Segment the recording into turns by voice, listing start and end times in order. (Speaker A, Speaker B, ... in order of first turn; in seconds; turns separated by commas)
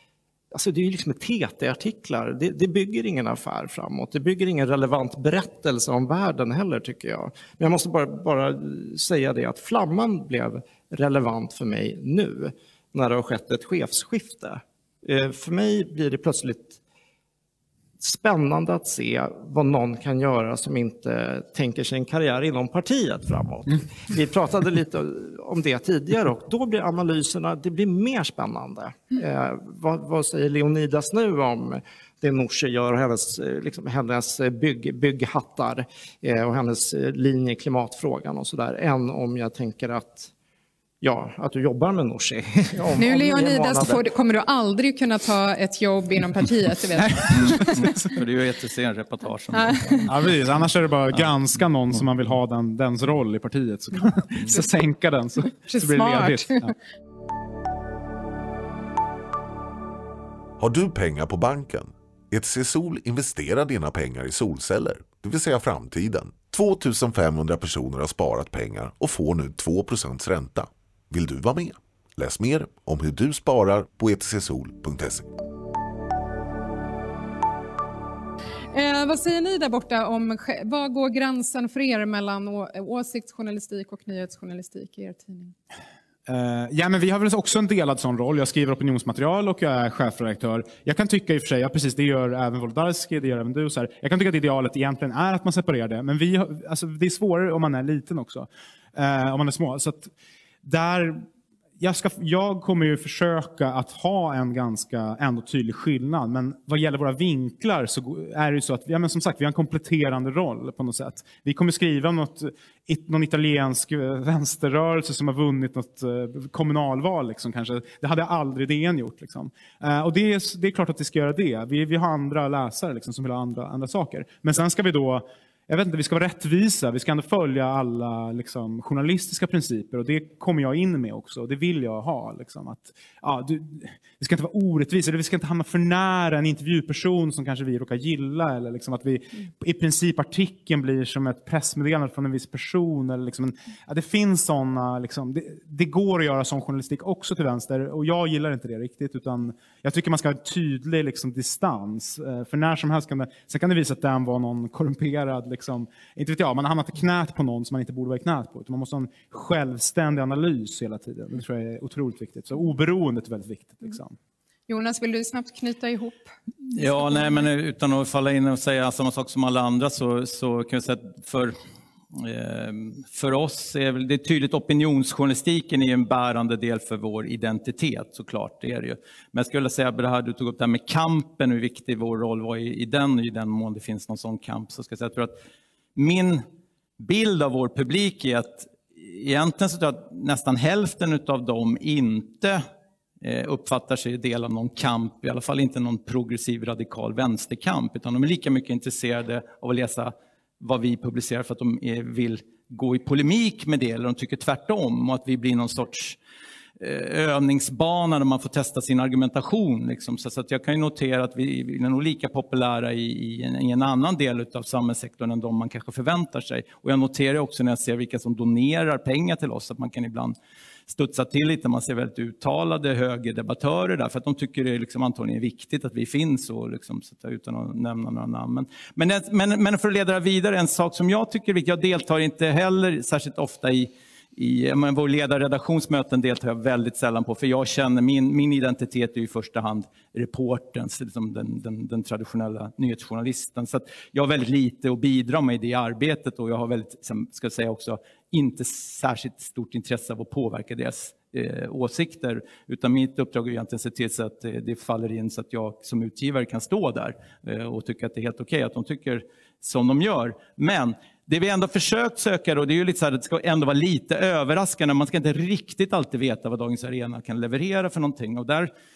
Speaker A: 0.5-16.8, Speaker A: 18.0-40.3, Speaker A: 41.0-44.0, Speaker B: 43.0-48.1, Speaker C: 47.3-50.2, Speaker B: 49.5-50.1, Speaker D: 50.0-56.7, Speaker B: 55.6-56.7, Speaker E: 60.6-75.3, Speaker B: 78.7-85.5, Speaker D: 86.3-100.1, Speaker D: 100.6-101.2, Speaker D: 101.8-164.1, Speaker B: 164.7-166.3, Speaker C: 166.7-171.6, Speaker C: 172.1-185.4, Speaker C: 185.9-186.4, Speaker C: 187.0-192.6, Speaker C: 193.2-206.2, Speaker C: 206.8-220.3, Speaker C: 220.9-268.7